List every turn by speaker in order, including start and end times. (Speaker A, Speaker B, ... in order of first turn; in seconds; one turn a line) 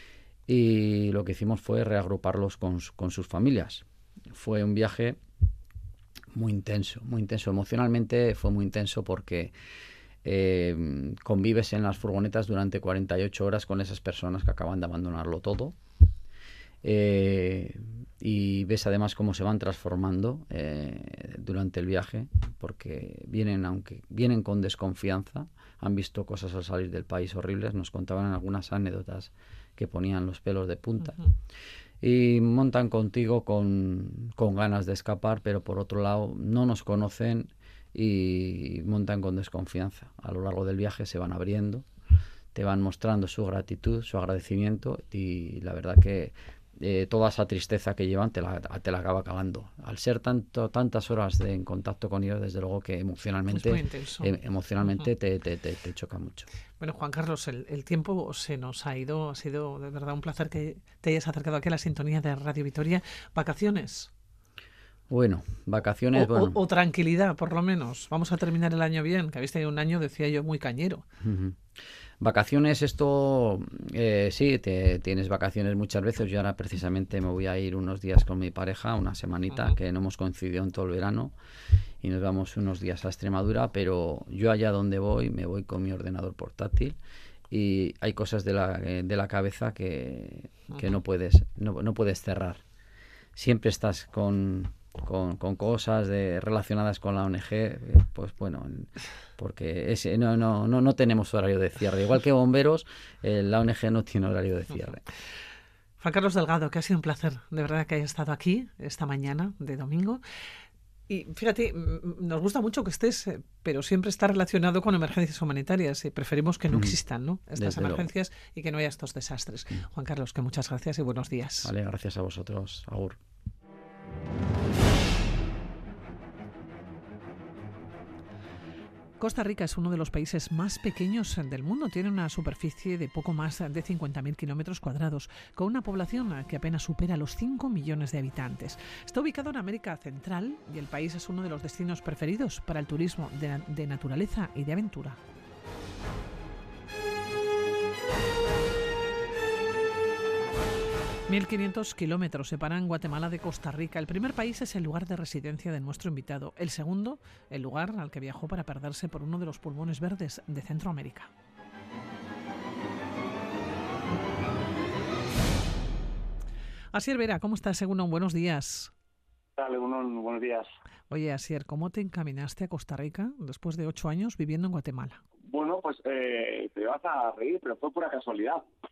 Speaker A: 0.5-5.2
Speaker A: 6.3-9.5
Speaker A: 10.2-15.8
Speaker A: 16.8-31.2
Speaker A: 32.0-41.9
Speaker A: 42.5-56.5
Speaker B: 53.5-54.3
Speaker B: 56.8-64.1
Speaker A: 65.1-66.6
Speaker B: 66.1-71.0
Speaker A: 71.2-71.6
Speaker A: 72.2-81.3
Speaker A: 82.0-87.0
Speaker A: 87.5-92.6
Speaker A: 93.3-105.0
Speaker B: 106.0-110.2
Speaker B: 111.1-121.7
Speaker A: 116.7-117.0
Speaker A: 117.6-118.1
Speaker A: 121.6-123.2
Speaker B: 129.2-145.2
Speaker B: 151.3-161.3
Speaker B: 166.9-168.9
Speaker C: 169.6-170.7
Speaker B: 171.1-175.2
Speaker C: 175.4-178.6